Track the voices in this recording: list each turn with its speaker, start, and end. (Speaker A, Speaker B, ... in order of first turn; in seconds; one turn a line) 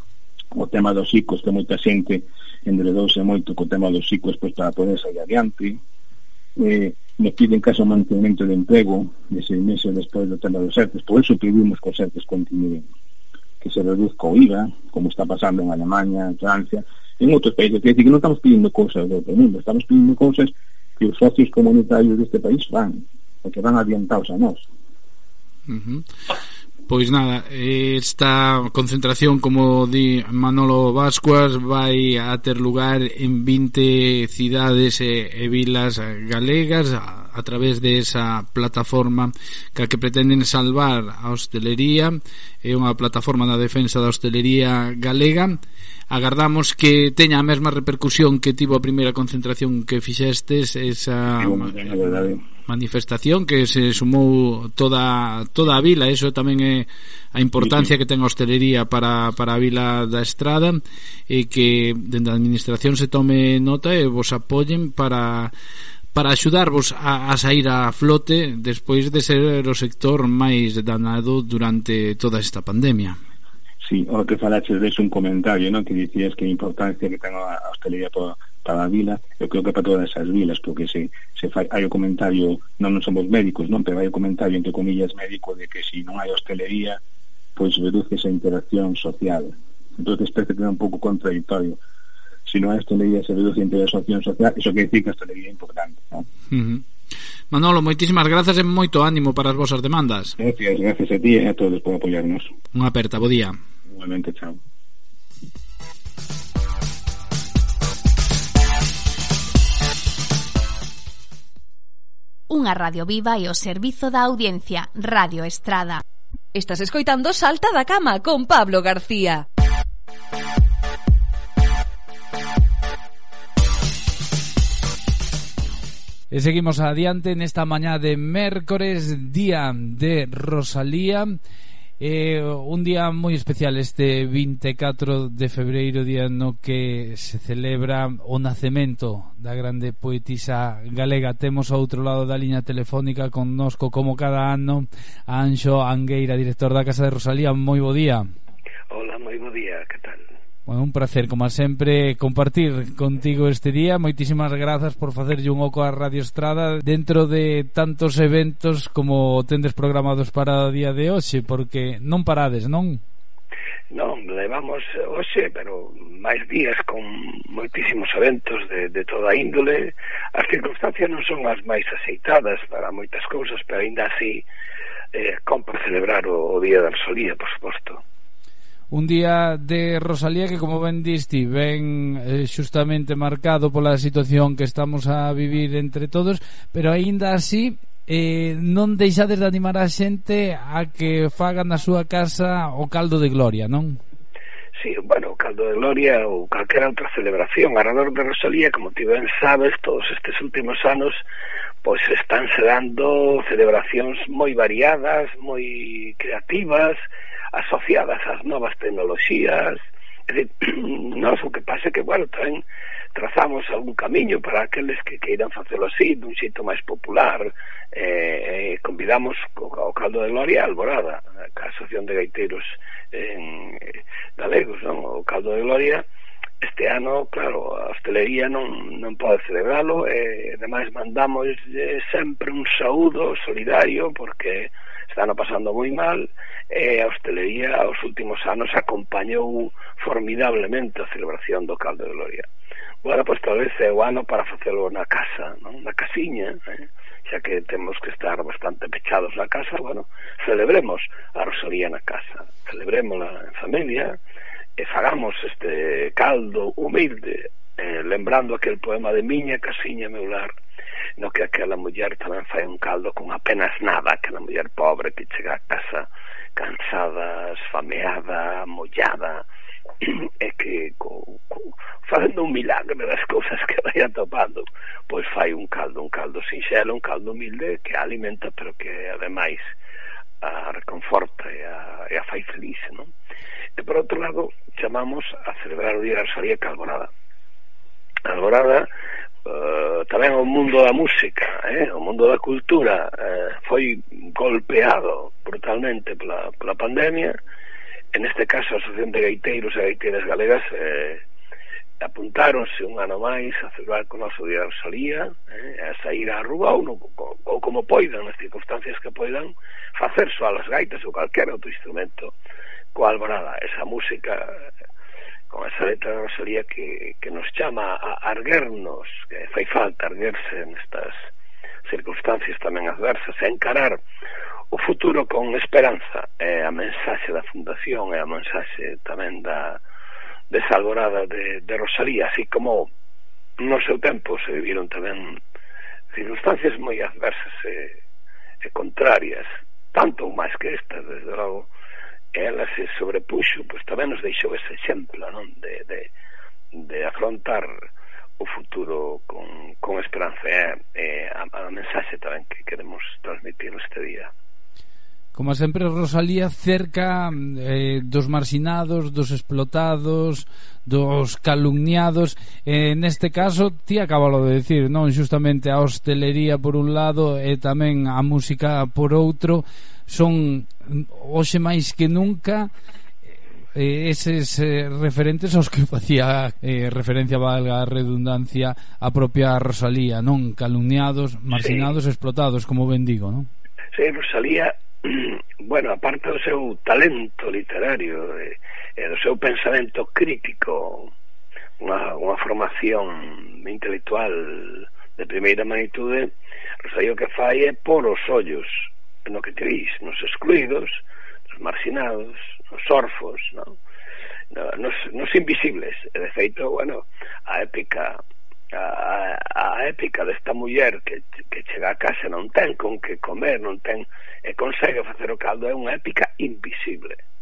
Speaker A: 0.5-5.8
Speaker A: 6.5-12.9
Speaker A: 13.6-24.6
Speaker B: 25.7-26.1
Speaker B: 26.9-45.6
Speaker B: 46.1-65.5
Speaker A: 51.4-52.4
Speaker A: 57.6-57.9
Speaker B: 66.1-73.2
Speaker A: 73.8-87.0
Speaker A: 87.5-91.8
Speaker A: 92.5-96.2
Speaker B: 96.5-96.8
Speaker B: 97.5-100.3
Speaker A: 100.4-102.5
Speaker B: 102.7-103.6
Speaker A: 103.9-104.6
Speaker C: 112.5-116.0
Speaker D: 116.5-119.4
Speaker B: 126.3-131.3
Speaker B: 132.0-148.3
Speaker E: 148.9-150.2
Speaker B: 150.7-163.0
Speaker E: 163.9-174.4
Speaker E: 175.1-178.0
Speaker B: 178.9-194.0
Speaker E: 194.8-201.2
Speaker E: 201.8-207.0
Speaker E: 207.5-212.6
Speaker E: 213.1-226.0
Speaker E: 226.6-242.4
Speaker E: 243.0-254.2
Speaker E: 254.8-260.5
Speaker E: 261.2-269.4
Speaker E: 270.0-279.7
Speaker E: 280.4-283.1
Speaker E: 283.8-287.1
Speaker E: 288.3-288.9
Speaker E: 289.4-297.3
Speaker E: 298.1-301.2
Speaker E: 302.0-312.3
Speaker E: 312.9-314.6
Speaker E: 315.5-321.3
Speaker E: 321.9-324.0
Speaker E: 324.7-329.8
Speaker E: 330.5-332.9
Speaker E: 333.6-335.4
Speaker E: 336.1-337.9
Speaker E: 338.6-341.7
Speaker E: 342.3-346.1
Speaker E: 346.7-347.7
Speaker E: 348.4-354.3
Speaker B: 355.3-372.7
Speaker B: 373.7-383.5
Speaker E: 381.5-381.9
Speaker E: 383.9-391.1
Speaker E: 391.8-403.8
Speaker E: 404.5-408.2
Speaker E: 408.7-417.2